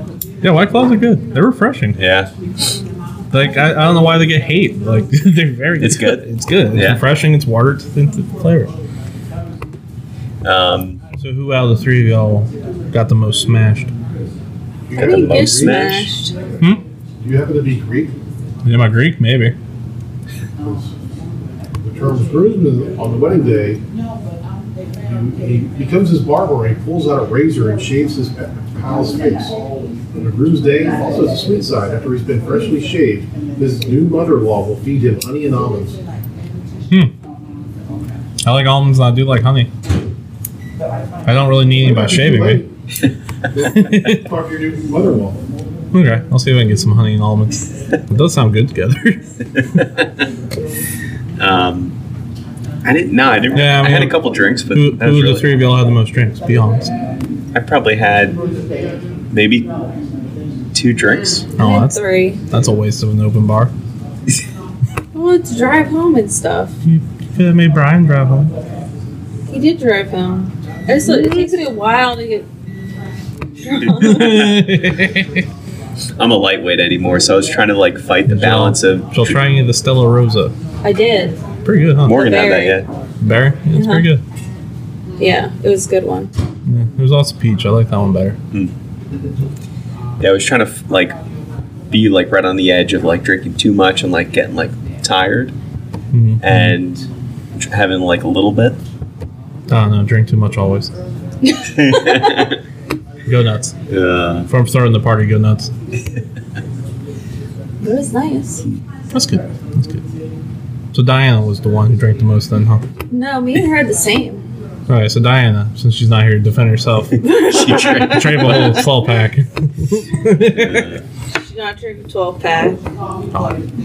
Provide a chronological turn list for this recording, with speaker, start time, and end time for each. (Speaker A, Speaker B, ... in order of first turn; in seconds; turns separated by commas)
Speaker A: 0.4-2.0, Speaker B: 2.0-2.3, Speaker A: 3.3-8.7, Speaker B: 5.8-7.0, Speaker B: 10.4-11.0, Speaker A: 11.2-13.9, Speaker C: 14.9-16.0, Speaker B: 14.9-16.1, Speaker D: 15.0-16.3, Speaker C: 17.2-18.1, Speaker A: 18.6-19.6, Speaker C: 20.6-20.9, Speaker C: 21.8-23.8, Speaker C: 25.0-29.6, Speaker C: 30.1-36.0, Speaker A: 38.5-39.7, Speaker A: 41.2-42.6, Speaker C: 41.8-42.7, Speaker C: 43.5-45.4, Speaker A: 43.6-44.2, Speaker A: 45.9-49.2, Speaker B: 49.8-50.1, Speaker B: 51.4-51.9, Speaker B: 52.8-55.5, Speaker A: 53.5-54.2, Speaker A: 54.7-56.9, Speaker B: 57.5-58.4, Speaker B: 59.3-59.7, Speaker B: 60.7-61.5, Speaker A: 61.6-62.0, Speaker D: 61.6-62.4, Speaker A: 62.5-63.7, Speaker D: 65.1-66.7, Speaker A: 66.8-68.5, Speaker D: 69.5-72.5, Speaker A: 71.0-71.6, Speaker D: 73.6-74.4, Speaker B: 73.7-74.7, Speaker A: 74.0-75.4, Speaker B: 76.2-79.4, Speaker A: 78.3-80.5, Speaker D: 80.8-81.4, Speaker A: 81.6-82.2, Speaker B: 82.0-82.9, Speaker D: 82.1-82.8, Speaker A: 83.2-84.2, Speaker D: 83.7-84.1, Speaker D: 85.2-86.3, Speaker A: 86.7-88.4, Speaker B: 90.2-91.2, Speaker B: 91.9-95.5, Speaker A: 96.1-96.8, Speaker B: 96.4-98.8, Speaker A: 99.7-100.9, Speaker D: 101.4-102.5, Speaker B: 101.6-102.6, Speaker A: 103.2-103.7, Speaker B: 103.9-104.5, Speaker A: 104.5-105.7, Speaker D: 107.8-108.6, Speaker A: 109.1-110.0, Speaker A: 110.9-112.8, Speaker D: 113.1-114.4, Speaker A: 114.9-117.2, Speaker D: 117.2-118.8, Speaker B: 117.2-118.8, Speaker A: 118.0-120.9, Speaker B: 120.7-121.0, Speaker D: 121.3-122.8